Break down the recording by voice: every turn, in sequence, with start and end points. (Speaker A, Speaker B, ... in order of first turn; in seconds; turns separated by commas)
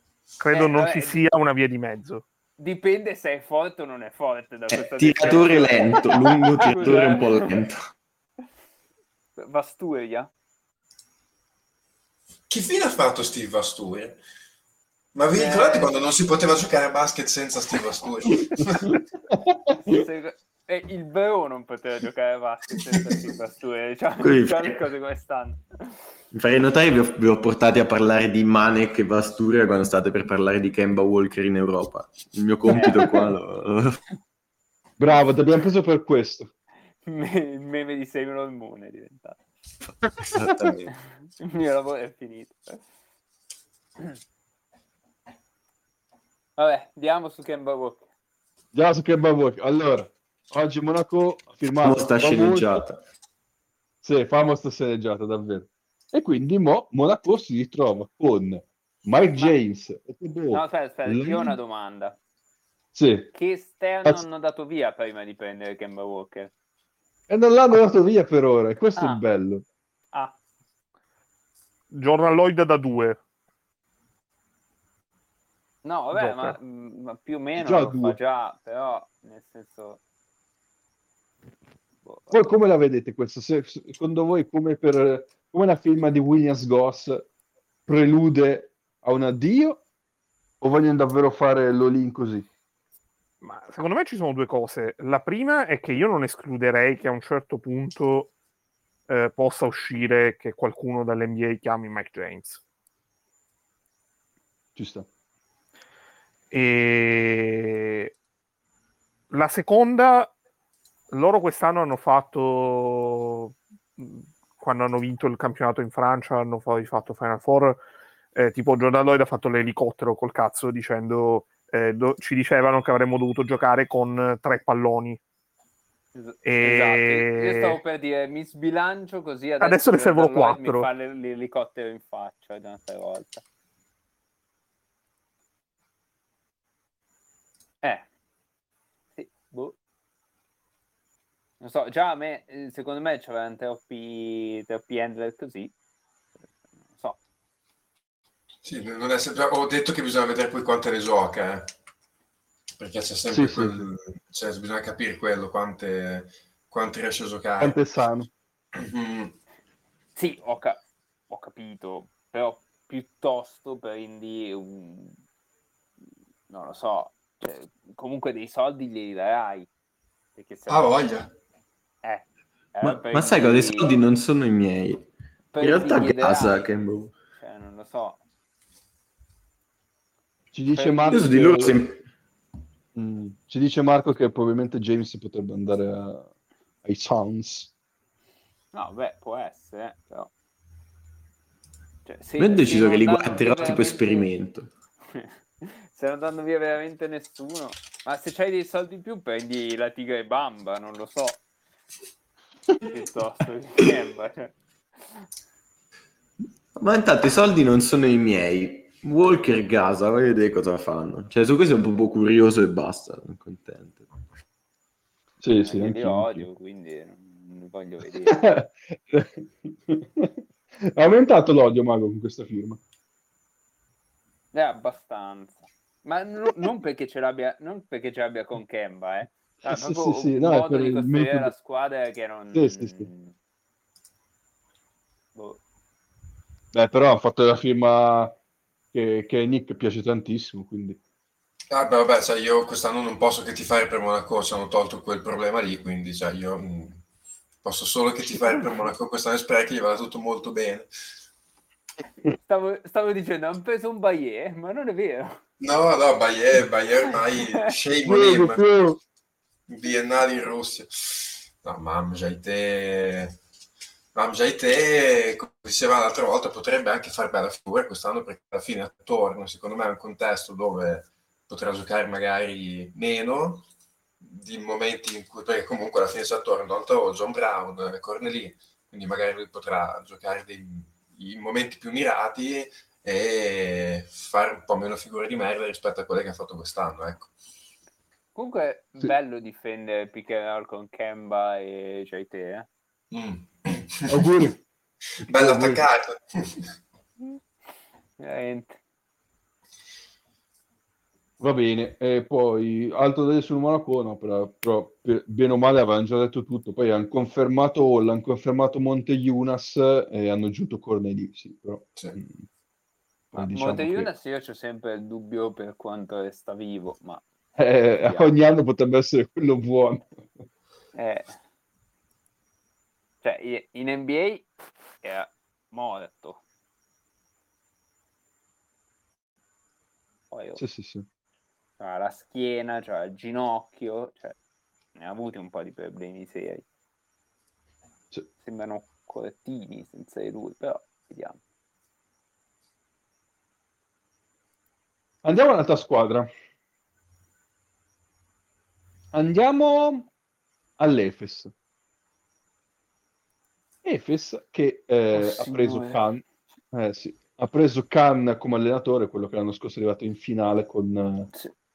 Speaker A: 0.4-2.2, Speaker B: 0.5-1.2, Speaker B: 2.6-7.5, Speaker C: 4.7-7.9, Speaker B: 9.4-10.3, Speaker D: 12.5-14.2, Speaker D: 15.1-19.0, Speaker B: 15.3-15.9, Speaker E: 18.6-20.0, Speaker B: 19.8-26.0, Speaker C: 24.2-24.8, Speaker C: 26.3-34.0, Speaker E: 32.7-33.1, Speaker B: 32.7-33.1, Speaker E: 35.0-36.5, Speaker B: 37.0-39.4, Speaker E: 40.2-40.8, Speaker C: 40.3-40.9, Speaker B: 41.2-42.8, Speaker B: 46.6-48.0, Speaker E: 48.7-52.9, Speaker C: 51.8-53.0, Speaker E: 54.0-61.5, Speaker B: 60.5-62.2, Speaker E: 62.9-63.3, Speaker B: 63.3-66.5, Speaker E: 67.3-69.6, Speaker B: 69.0-69.2, Speaker A: 71.9-73.2, Speaker B: 75.8-80.0, Speaker A: 76.1-76.6, Speaker E: 77.6-78.2, Speaker B: 82.0-82.4, Speaker E: 82.3-87.2, Speaker E: 87.8-89.8, Speaker E: 90.6-92.5, Speaker A: 93.4-98.3, Speaker A: 99.1-102.6, Speaker E: 104.7-105.1, Speaker A: 106.5-108.1, Speaker A: 109.3-110.3, Speaker A: 111.1-117.8, Speaker A: 118.3-125.2, Speaker B: 126.1-133.4, Speaker A: 126.4-127.8, Speaker A: 129.6-130.9, Speaker B: 139.2-139.8, Speaker B: 141.6-145.7, Speaker D: 148.6-151.7, Speaker D: 152.8-157.8, Speaker E: 153.3-153.8, Speaker E: 157.6-158.3, Speaker D: 158.7-159.3, Speaker B: 160.2-165.2, Speaker B: 166.5-169.7, Speaker B: 170.3-170.9, Speaker D: 170.7-171.3, Speaker B: 172.0-173.9, Speaker C: 172.8-177.1, Speaker B: 175.5-176.7, Speaker B: 177.3-178.2, Speaker E: 180.5-181.8, Speaker B: 180.7-181.3, Speaker C: 181.1-182.0, Speaker E: 182.9-186.3, Speaker E: 186.8-187.7, Speaker B: 188.7-190.3, Speaker B: 192.1-194.3, Speaker C: 192.4-194.7, Speaker B: 195.1-201.4, Speaker B: 202.8-205.2, Speaker C: 206.7-214.1, Speaker E: 215.4-216.5, Speaker B: 215.6-218.4, Speaker E: 218.2-222.8, Speaker B: 224.5-233.3, Speaker E: 229.7-231.5, Speaker E: 232.5-233.1, Speaker B: 235.3-235.6, Speaker E: 236.7-238.3, Speaker E: 238.9-241.0, Speaker D: 241.7-247.0, Speaker D: 247.6-250.9, Speaker B: 252.4-255.4, Speaker D: 255.6-258.7, Speaker B: 257.3-257.6, Speaker E: 258.0-259.0, Speaker D: 259.7-263.4, Speaker D: 264.1-273.6, Speaker D: 274.2-287.3, Speaker B: 288.3-292.7, Speaker D: 293.1-294.3, Speaker E: 294.1-294.6, Speaker E: 295.2-295.9, Speaker D: 295.3-296.7, Speaker B: 298.2-298.8, Speaker E: 301.4-312.5, Speaker E: 313.3-314.1, Speaker B: 313.4-317.2, Speaker E: 317.6-320.3, Speaker B: 318.1-318.3, Speaker B: 320.9-321.4, Speaker B: 323.2-324.5, Speaker B: 325.0-326.4, Speaker B: 330.3-330.6, Speaker E: 330.6-331.1, Speaker B: 331.8-334.3, Speaker B: 334.9-336.6, Speaker B: 338.4-341.4, Speaker E: 345.2-346.3, Speaker E: 349.1-350.1, Speaker E: 350.8-351.5, Speaker E: 353.8-361.3, Speaker B: 355.1-356.0